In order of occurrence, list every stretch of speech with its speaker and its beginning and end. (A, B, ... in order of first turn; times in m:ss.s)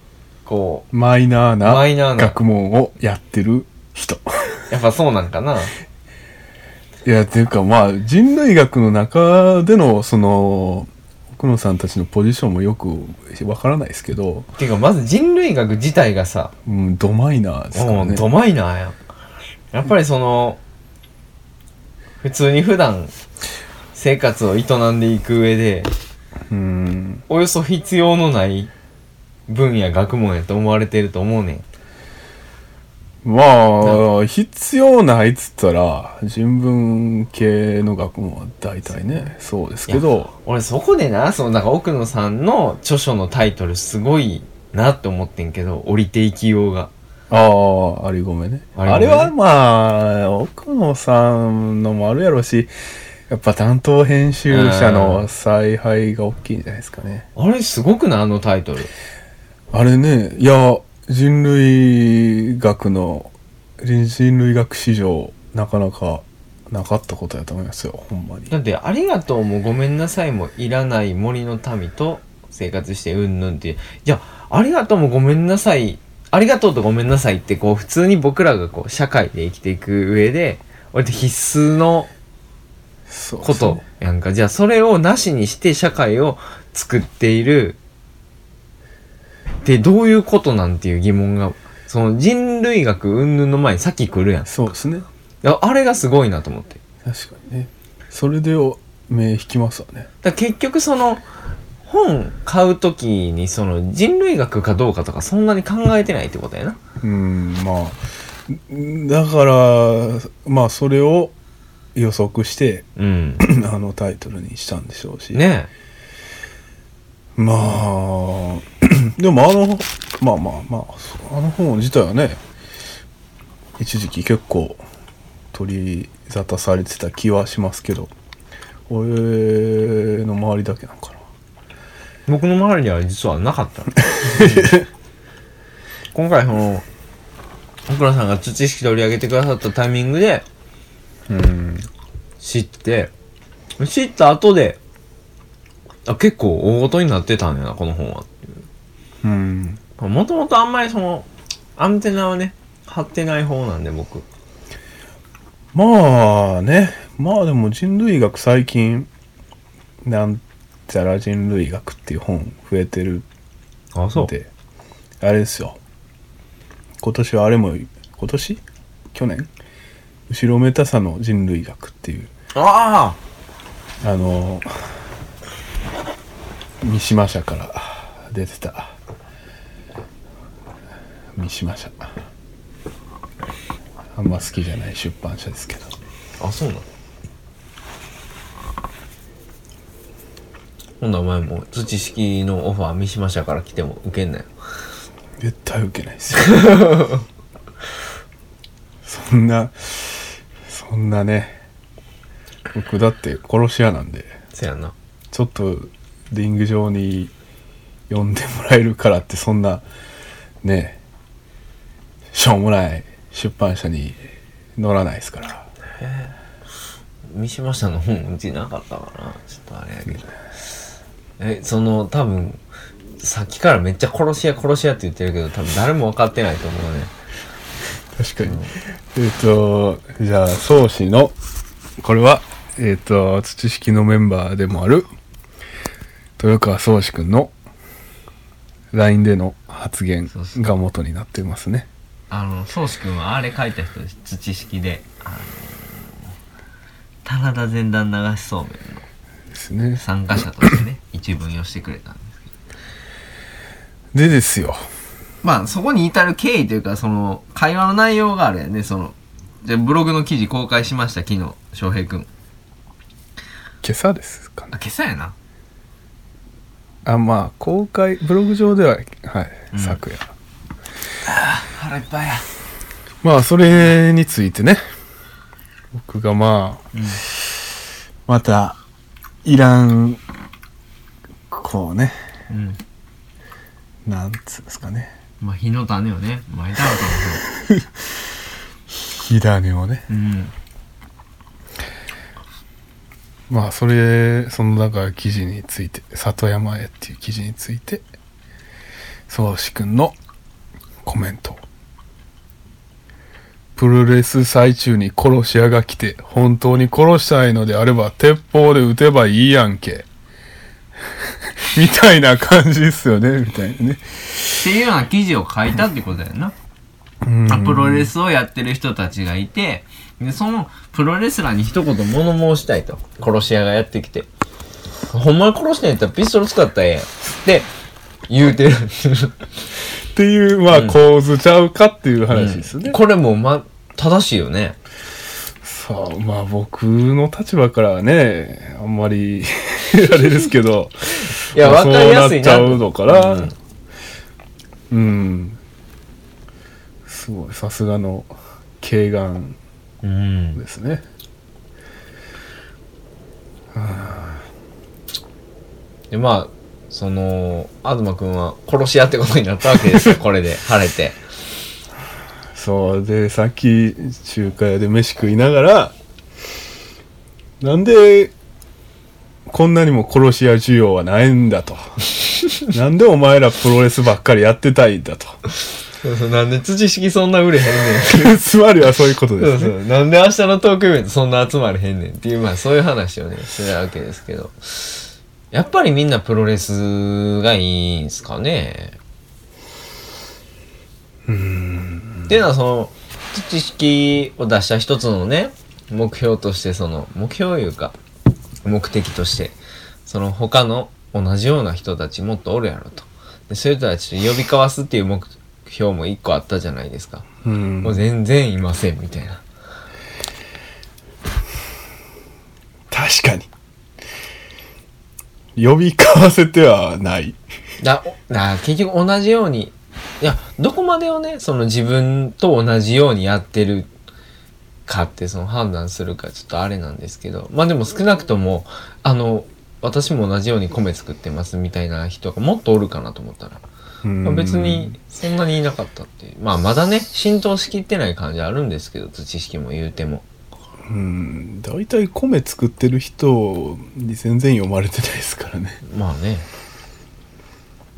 0:00.5-0:00.9 A
0:00.9-0:04.7 B
0:01.6-0:02.4 A
0:04.7-0:05.7 A
0:07.0-0:14.5 B
0:14.6-0:16.5 A
0:16.7-0:18.3 B
0:17.7-0:19.0 A
0:19.7-0:20.6 A
0:22.2-0:23.1 A
0:23.9-0:25.9 A
0:26.5-0:27.2 B
0:27.3-0:28.7 A
0:29.5-0:31.6 A
0:33.2-0:40.3 B
0:38.9-0:39.3 A
0:39.9-0:46.9 A
0:47.3-0:52.7 B
0:48.8-0:49.3 A
0:53.3-0:57.3 B
0:54.5-0:55.3 A
0:57.4-0:58.9 A
0:59.7-1:08.5 B
1:08.5-1:22.1 A
1:23.1-1:23.8 B
1:23.4-1:27.8 A
1:29.6-1:34.5 A
1:34.5-1:35.1 B
1:35.4-1:36.8 A
1:37.0-1:40.1 B
1:40.2-1:41.3 A
1:41.8-1:46.8 A
1:47.0-1:51.3 B
1:52.0-1:52.9 B
1:53.0-1:53.4 A
1:53.4-1:55.4 B
1:55.3-1:55.7 A
1:57.4-2:02.4 B
2:03.8-2:04.8 B
2:05.5-2:08.1 B
2:08.9-2:11.2 B
2:12.3-2:14.8 A
2:14.1-2:14.9 B
2:16.1-2:16.9 A
2:17.9-2:20.4 A
2:21.3-2:21.9 B
2:22.4-2:23.1 A
2:23.8-2:24.8 A
2:26.1-2:28.5 A
2:29.2-2:29.8 B
2:30.0-2:34.3 A
2:35.7-2:39.1 B
2:40.0-2:43.3 B
2:44.0-2:44.3 A
2:44.2-2:44.5 B
2:45.2-2:45.8 B
2:47.0-2:49.5 B
2:50.3-2:52.3 B
2:52.6-2:53.2 A
2:54.0-2:54.7 B
2:56.8-2:59.0 B
3:01.4-3:02.1 B
3:04.2-3:05.9 B
3:06.4-3:06.8 A
3:11.0-3:14.5 A
3:15.4-3:16.9 B
3:16.4-3:17.2 A
3:19.0-3:21.6 B
3:22.7-3:24.4 B
3:24.5-3:24.9 A
3:25.3-3:27.3 B
3:28.1-3:29.8 B
3:30.6-3:31.0 B
3:32.3-3:34.2 B
3:34.8-3:35.7 B
3:36.0-3:36.3 A
3:37.3-3:40.3 A
3:41.4-3:42.6 A
3:43.2-3:47.1 A
3:48.2-3:51.4 B
3:48.4-3:48.8 A
3:52.0-3:55.1 B
3:56.4-3:57.5 B
3:58.9-4:01.9 B
4:00.3-4:00.6 A
4:02.3-4:06.3 A
4:07.2-4:09.0 A
4:09.5-4:10.0 B
4:10.0-4:12.4 A
4:14.1-4:14.8 B
4:15.4-4:22.3 A
4:23.8-4:24.7 B
4:24.7-4:25.4 A
4:27.1-4:30.3 B
4:29.7-4:30.0 A
4:31.3-4:32.4 A
4:33.2-4:34.8 B
4:35.9-4:36.8 B
4:36.9-4:37.2 A
4:38.3-4:38.8 B
4:39.4-4:40.2 B
4:41.5-4:42.2 B
4:42.5-4:42.8 A
4:44.0-4:45.1 B
4:45.4-4:47.4 A
4:47.4-4:47.8 B
4:49.1-4:50.1 B
4:50.1-4:50.5 A
4:53.5-4:58.0 B
4:59.3-5:00.2 B
5:01.0-5:01.6 B
5:03.8-5:10.1 B
5:11.7-5:14.6 B
5:14.6-5:16.5 A
5:17.2-5:18.1 B
5:17.5-5:24.3 A
5:25.1-5:27.7 A
5:28.3-5:29.4 A
5:30.1-5:33.0 B
5:30.7-5:31.0 A
5:32.3-5:34.8 A
5:35.6-5:43.5 B
5:41.5-5:43.6 A
5:44.9-5:45.6 B
5:47.1-5:49.6 B
5:50.0-5:50.6 A
5:50.6-5:51.0 B
5:53.7-5:54.4 B
5:56.1-6:01.2 A
6:02.6-6:05.9 B
6:07.6-6:08.3 B
6:09.5-6:11.8 B
6:12.7-6:15.4 B
6:16.0-6:18.3 A
6:18.0-6:19.8 B
6:19.4-6:29.0 A
6:31.3-6:32.5 B
6:32.3-6:38.0 A
6:38.6-6:47.3 A
6:47.4-6:48.0 B
6:47.8-6:49.4 A
6:52.9-6:53.5 B
6:55.6-6:57.4 B
6:57.8-7:03.9 A
7:04.9-7:13.6 A
7:14.0-7:15.0 B
7:14.2-7:20.3 A
7:20.9-7:25.8 B
7:25.8-7:26.5 A